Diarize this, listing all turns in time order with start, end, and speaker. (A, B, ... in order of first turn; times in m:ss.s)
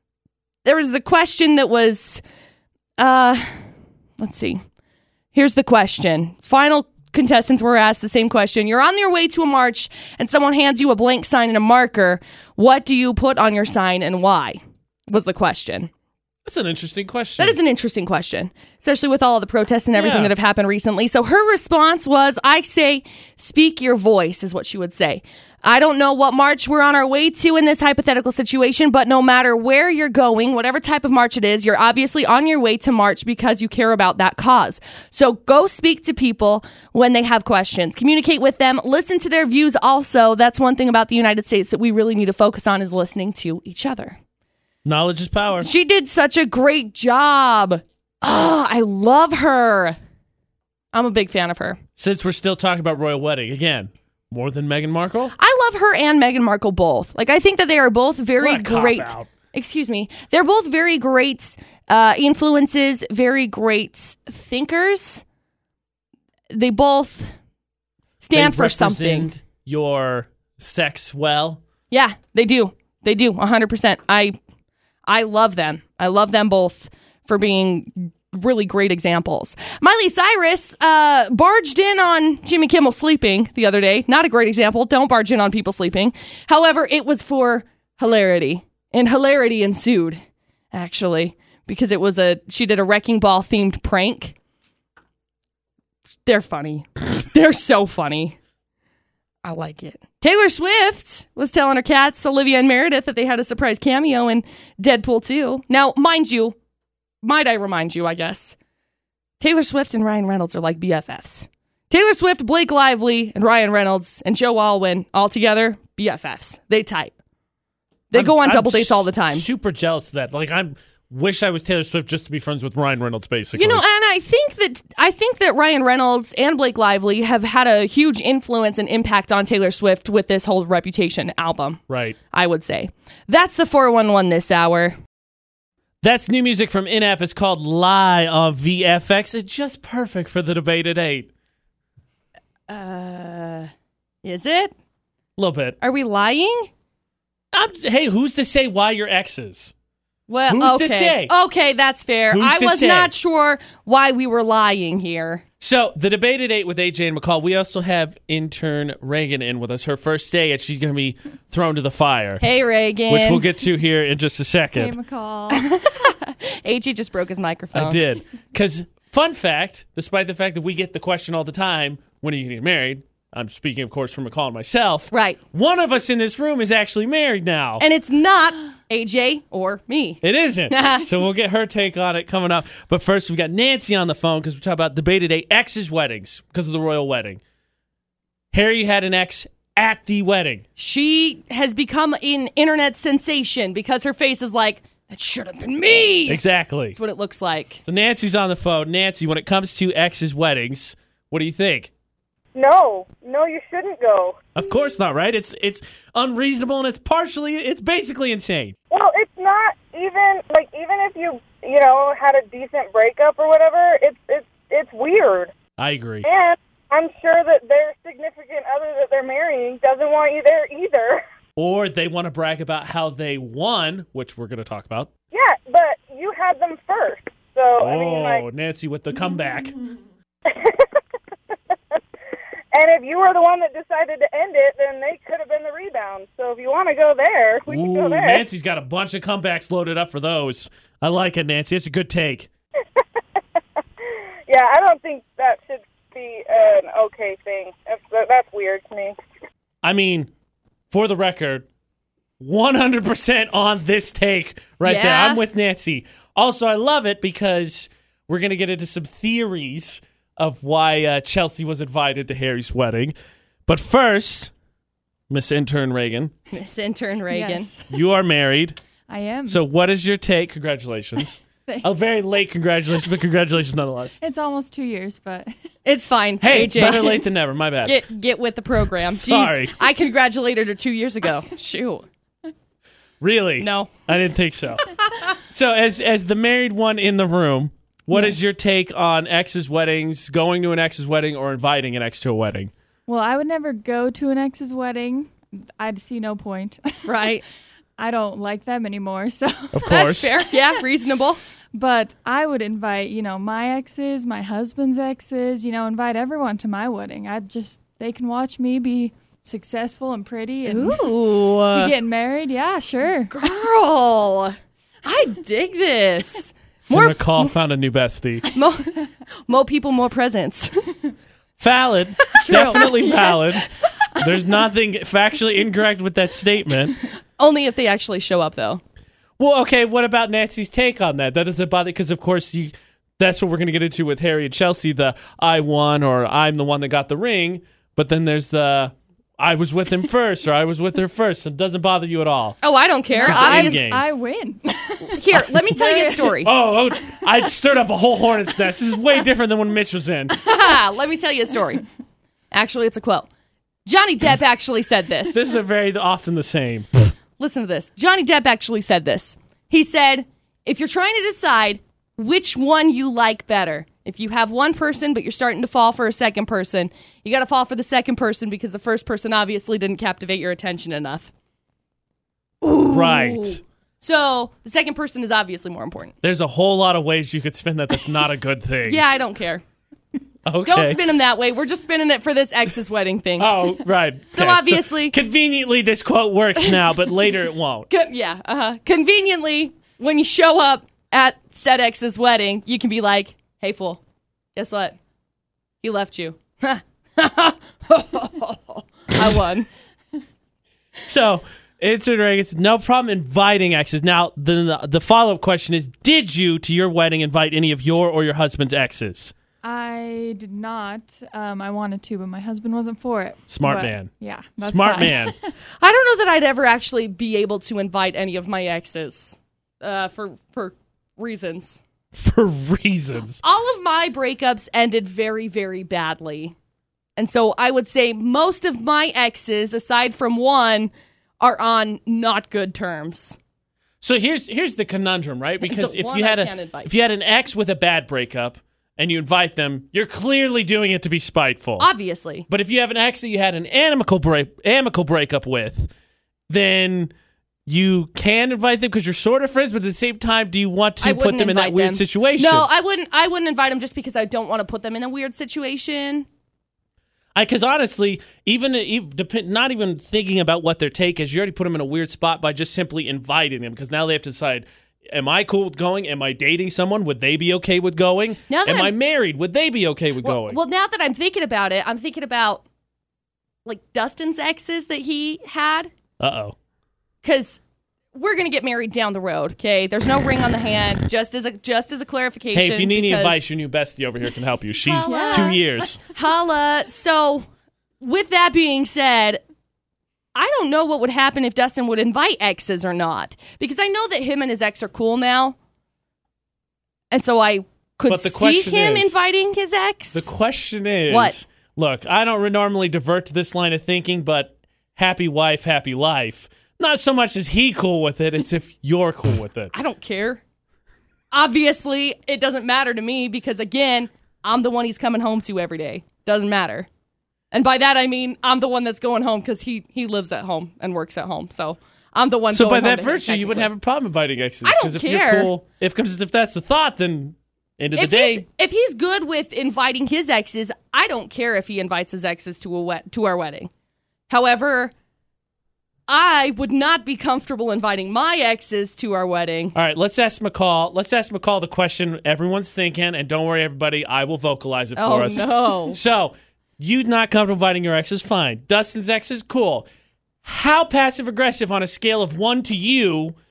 0:00.6-0:02.2 A
0:03.0-0:03.6 A
0:04.2-0:04.6 A
0:05.3-0:15.9 A
0:16.5-0:17.6 B
0:17.4-0:44.2 A
0:20.0-0:20.3 B
0:44.8-0:45.7 B
0:45.6-0:50.0 A
0:50.9-0:51.8 A
0:52.0-0:55.3 B
0:55.4-1:05.2 A
0:58.4-0:59.3 B
1:06.5-1:07.3 A
1:08.2-1:09.3 A
1:08.3-1:11.6 B
1:11.9-1:14.4 A
1:15.1-1:30.2 A
1:30.7-1:34.4 A
1:36.3-1:38.4 A
1:39.4-1:46.6 A
1:47.2-1:48.6 A
1:49.4-1:57.1 A
1:58.1-1:59.5 A
1:58.1-2:03.8 B
2:03.6-2:15.0 A
2:11.9-2:12.2 B
2:16.0-2:21.3 B
2:22.7-2:23.7 A
2:24.2-2:24.7 A
2:25.4-2:25.8 B
2:25.8-2:26.7 A
2:27.5-2:29.7 B
2:30.3-2:35.4 A
2:30.5-2:31.3 B
2:32.3-2:33.1 B
2:35.6-2:42.4 B
2:42.4-2:43.5 A
2:43.1-2:45.0 B
2:44.7-2:45.6 C
2:45.5-2:48.0 A
2:47.7-2:57.8 B
2:55.1-2:55.4 A
2:57.8-3:01.1 A
3:00.2-3:07.4 B
3:08.5-3:10.6 B
3:10.8-3:17.8 A
3:16.3-3:17.0 B
3:17.9-3:21.9 B
3:22.6-3:24.5 D
3:24.5-3:28.8 B
3:28.9-3:35.5 D
3:35.8-3:36.3 B
3:36.2-3:41.2 D
3:41.6-3:45.1 B
3:45.3-3:48.5 D
3:47.8-3:49.8 B
3:50.5-3:50.8 D
3:52.7-3:58.4 D
3:57.7-4:02.5 B
4:04.5-4:09.2 D
4:09.8-4:10.3 B
4:10.9-4:11.7 B
4:12.4-4:23.2 B
4:14.8-4:15.4 A
4:23.7-4:24.5 B
4:25.3-4:26.3 B
4:26.5-4:27.8 A
4:27.3-4:27.8 C
4:27.9-4:28.8 B
4:29.1-4:29.6 C
4:29.5-4:34.2 B
4:31.7-4:32.1 C
4:34.2-4:35.5 C
4:35.8-4:37.2 A
4:36.4-4:38.0 B
4:36.8-4:37.2 C
4:37.8-4:42.1 A
4:39.1-4:39.8 B
4:43.2-4:44.9 B
4:43.6-4:44.0 A
4:45.5-4:52.7 B
4:53.1-4:57.1 C
4:57.0-4:57.4 A
4:58.0-4:59.8 C
4:59.7-5:00.3 B
4:59.9-5:01.4 A
5:00.5-5:00.8 C
5:01.7-5:11.1 C
5:10.7-5:12.0 A
5:11.7-5:13.4 C
5:13.3-5:17.5 A
5:16.9-5:18.5 B
5:18.5-5:21.0 A
5:21.6-5:27.0 B
5:22.4-5:23.7 A
5:22.6-5:22.9 C
5:27.4-5:28.8 A
5:29.4-5:42.6 B
5:42.6-5:43.9 A
5:43.1-5:46.4 C
5:43.2-5:44.0 B
5:45.0-5:46.5 A
5:46.4-5:50.4 B
5:50.4-5:51.8 A
5:52.5-5:53.3 A
5:53.8-5:55.4 A
5:55.3-5:56.9 B
5:57.4-6:11.3 A
6:12.6-6:16.1 A
6:12.9-6:13.6 B
6:16.2-6:19.0 B
6:18.8-6:19.6 A
6:20.4-6:21.0 B
6:20.6-6:23.7 A
6:23.4-6:27.9 B
6:24.3-6:25.2 A
6:27.9-6:34.0 A
6:34.6-6:35.0 A
6:35.8-6:39.7 A
6:41.0-6:49.3 B
6:49.6-6:55.5 C
6:53.5-6:55.3 B
6:55.8-7:01.8 A
7:02.2-7:03.4 B
7:03.4-7:06.6 A
7:07.2-7:13.4 A
7:14.0-7:21.9 B
7:15.6-7:16.9 A
7:21.8-7:22.5 A
7:22.5-7:25.9 B
7:26.5-7:27.1 B
7:27.7-7:32.7 B
7:31.0-7:36.3 A
7:37.4-7:50.6 B
7:48.5-7:48.9 A
7:50.2-7:52.6 A
7:53.6-7:55.9 A
7:56.2-7:56.6 B
7:57.2-7:57.6 A
7:58.1-8:03.4 A
8:02.5-8:06.0 B
8:04.8-8:07.5 A
8:05.1-8:05.6 C
8:08.0-8:09.4 A
8:10.4-8:15.6 A
8:17.1-8:20.3 A
8:18.1-8:19.2 B
8:20.1-8:29.7 B
8:21.1-8:21.4 A
8:29.7-8:30.4 A
8:31.3-8:36.9 A
8:37.5-8:43.7 A
8:42.5-8:48.4 B
8:44.6-8:45.5 A
8:48.0-8:53.7 A
8:54.3-8:54.9 A
8:56.1-8:59.8 A
8:59.8-9:09.9 B
9:05.0-9:06.0 A
9:10.4-9:13.4 B